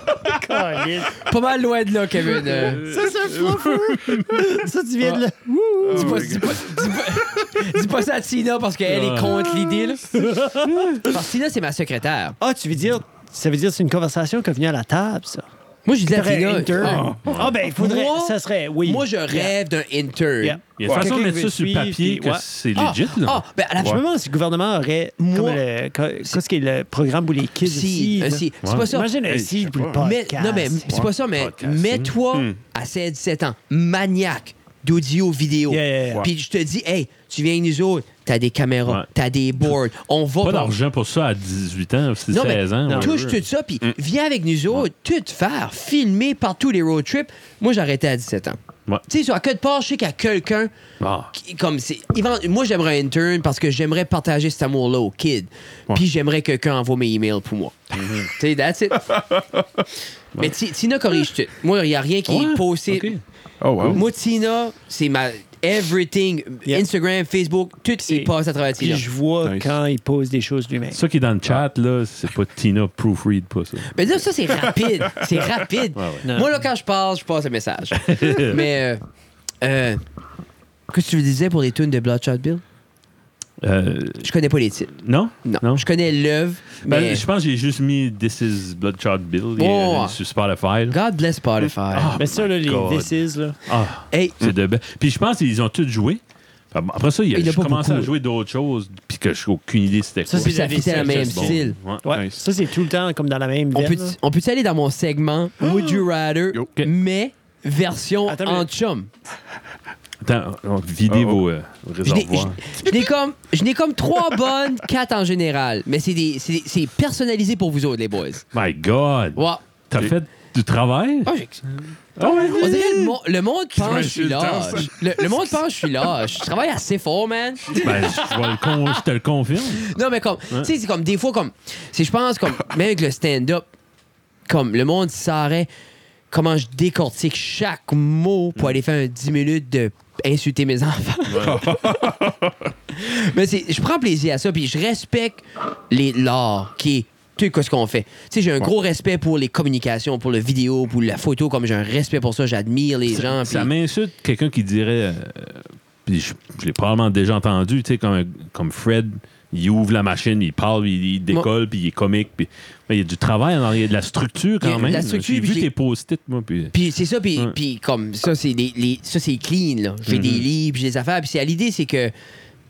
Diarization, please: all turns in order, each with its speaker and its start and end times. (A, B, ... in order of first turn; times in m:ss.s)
0:00.3-0:01.2 A
0:01.2-0:02.9 B
0:02.4-0:06.5 A
0:02.8-0:04.3 C
0:05.0-0:05.2 B
0:05.8-0:06.8 D
0:05.8-0:10.2 B
0:08.8-0:09.8 C
0:09.9-0:11.0 A
0:11.0-0:12.4 B
0:12.4-0:15.5 A
0:15.8-0:17.1 B
0:16.1-0:19.5 A
0:16.8-0:17.2 D
0:17.2-0:17.6 C
0:17.6-0:20.6 B
0:20.4-0:22.4 A
0:20.8-0:23.4 C
0:20.8-0:21.1 D
0:22.7-0:24.0 B
0:23.8-0:31.0 A
0:25.2-0:25.6 B
0:27.6-0:29.1 B
0:29.2-0:30.0 D
0:30.0-0:40.7 B
0:31.4-0:32.1 C
0:32.3-0:32.6 D
0:35.7-0:36.3 A
0:40.4-0:43.4 C
0:42.3-0:50.7 B
0:42.9-0:43.1 A
0:51.0-0:51.3 C
0:51.3-0:59.0 B
0:57.9-0:58.3 C
0:59.0-0:59.8 D
1:00.4-1:03.1 B
1:02.3-1:03.2 C
1:03.6-1:04.0 D
1:03.8-1:09.0 B
1:08.0-1:11.0 A
1:09.4-1:09.7 D
1:10.9-1:13.9 C
1:13.9-1:19.0 B
1:16.0-1:16.2 C
1:16.2-1:16.5 A
1:18.0-1:18.6 C
1:19.6-1:20.0 B
1:20.9-1:22.6 B
1:23.6-1:24.3 C
1:24.2-1:27.2 B
1:25.0-1:25.9 C
1:26.8-1:31.0 C
1:29.6-1:30.2 B
1:30.9-1:32.2 B
1:31.9-1:33.1 C
1:32.2-1:33.6 A
1:33.6-1:36.2 C
1:34.1-1:34.4 B
1:36.7-1:42.0 C
1:37.3-1:38.1 B
1:40.3-1:44.2 A
1:40.4-1:41.8 B
1:42.1-1:42.4 D
1:43.7-1:49.1 B
1:48.2-1:48.7 A
1:50.2-1:52.7 C
1:51.1-1:51.4 D
1:52.0-1:58.4 B
1:58.5-2:01.3 C
1:59.4-1:59.6 B
2:01.2-2:01.6 B
2:02.2-2:02.9 A
2:02.2-2:03.1 C
2:02.5-2:09.0 B
2:03.7-2:06.1 D
2:07.8-2:09.9 C
2:09.7-2:13.7 B
2:14.5-2:15.7 B
2:16.3-2:22.0 B
2:21.3-2:21.6 C
2:21.4-2:22.7 D
2:22.9-2:33.7 B
2:33.1-2:46.7 C
2:44.6-2:45.7 B
2:46.7-2:52.1 B
2:50.1-2:50.5 C